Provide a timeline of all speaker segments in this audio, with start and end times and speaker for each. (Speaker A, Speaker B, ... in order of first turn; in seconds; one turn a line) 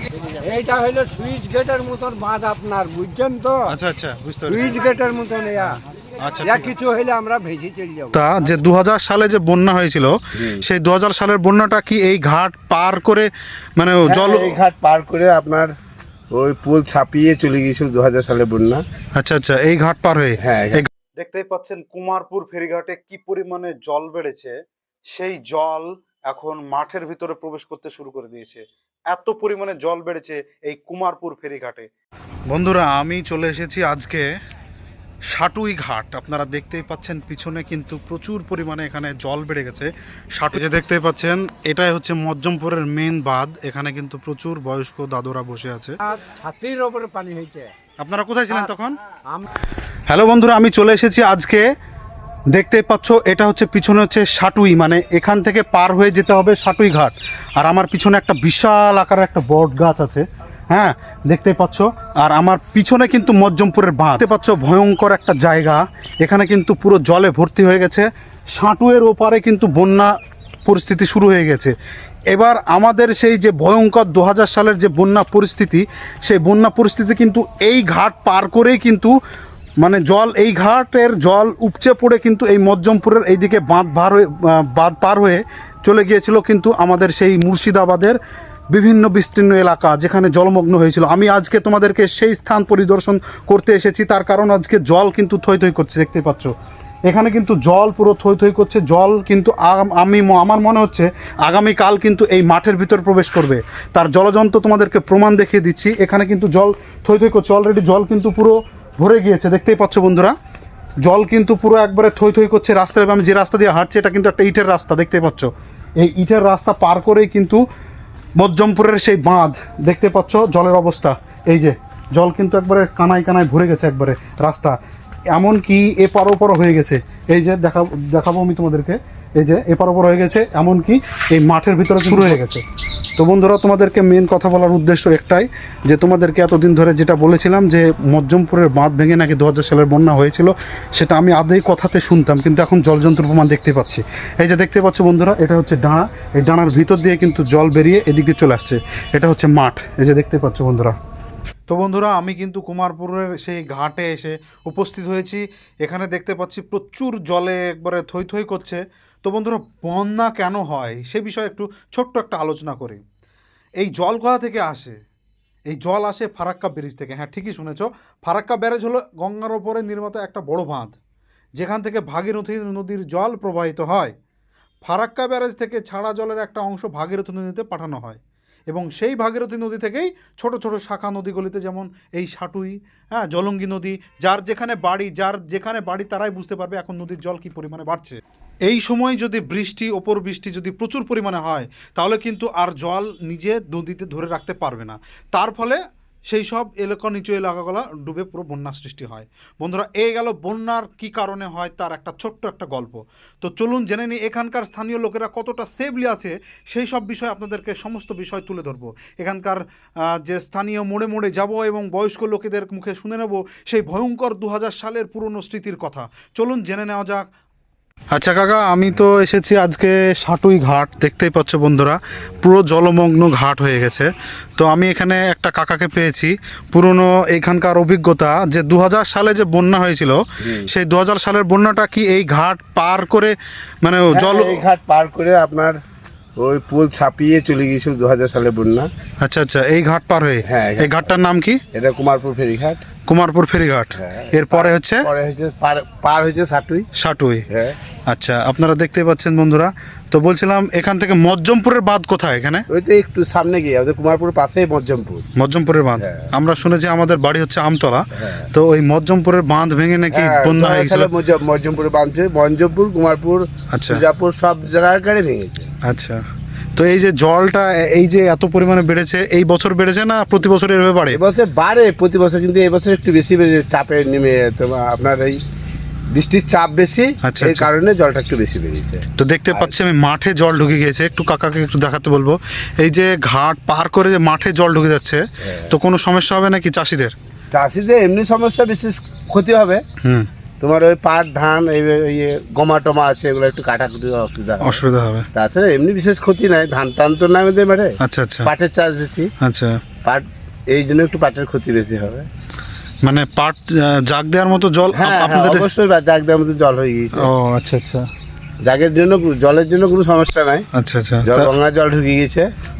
Speaker A: 0.2-3.8
Speaker B: 3.7-4.8
Speaker A: 4.5-5.8
Speaker B: 5.7-6.7
Speaker A: 6.4-8.2
Speaker B: 8.1-14.6
Speaker C: 10.3-10.6
Speaker C: 14.1-15.7
Speaker C: 16.3-18.8
Speaker B: 19.1-24.5
Speaker C: 20.4-20.9
Speaker B: 25.1-31.9
Speaker B: 32.5-34.2
Speaker B: 35.3-46.0
Speaker A: 46.0-47.7
Speaker B: 48.0-49.0
Speaker A: 49.2-49.5
Speaker B: 50.1-51.6
Speaker B: 52.5-70.1
Speaker B: 70.6-71.7
Speaker B: 72.3-79.1
Speaker B: 79.8-88.2
Speaker B: 88.7-96.5
Speaker B: 97.1-110.3
Speaker B: 111.0-117.6
Speaker B: 118.4-124.8
Speaker B: 125.3-132.6
Speaker B: 133.2-151.0
Speaker B: 151.7-163.0
Speaker B: 163.8-165.0
Speaker B: 165.7-171.0
Speaker B: 171.6-174.1
Speaker B: 174.8-217.3
Speaker B: 218.1-234.6
Speaker C: 230.4-230.7
Speaker C: 234.1-235.8
Speaker C: 236.4-238.9
Speaker B: 239.2-241.6
Speaker C: 240.4-241.1
Speaker C: 241.7-242.8
Speaker B: 243.1-245.1
Speaker C: 244.0-246.9
Speaker B: 246.9-247.4
Speaker C: 247.5-247.8
Speaker B: 248.1-252.7
Speaker C: 252.7-255.2
Speaker B: 255.4-261.1
Speaker C: 256.0-256.3
Speaker C: 258.1-258.5
Speaker C: 260.1-265.7
Speaker B: 263.7-264.0
Speaker B: 265.8-266.2
Speaker B: 266.8-271.2
Speaker C: 271.1-275.4
Speaker C: 276.1-279.8
Speaker B: 277.2-277.7
Speaker B: 279.1-287.1
Speaker C: 285.5-285.7
Speaker C: 287.5-289.8
Speaker B: 290.0-290.3
Speaker C: 290.6-299.3
Speaker B: 294.6-295.3
Speaker B: 298.0-298.5
Speaker B: 299.4-299.8
Speaker C: 300.0-302.2
Speaker B: 303.0-305.7
Speaker C: 304.9-307.3
Speaker B: 307.2-308.1
Speaker C: 308.6-310.6
Speaker B: 310.7-311.5
Speaker C: 311.2-312.5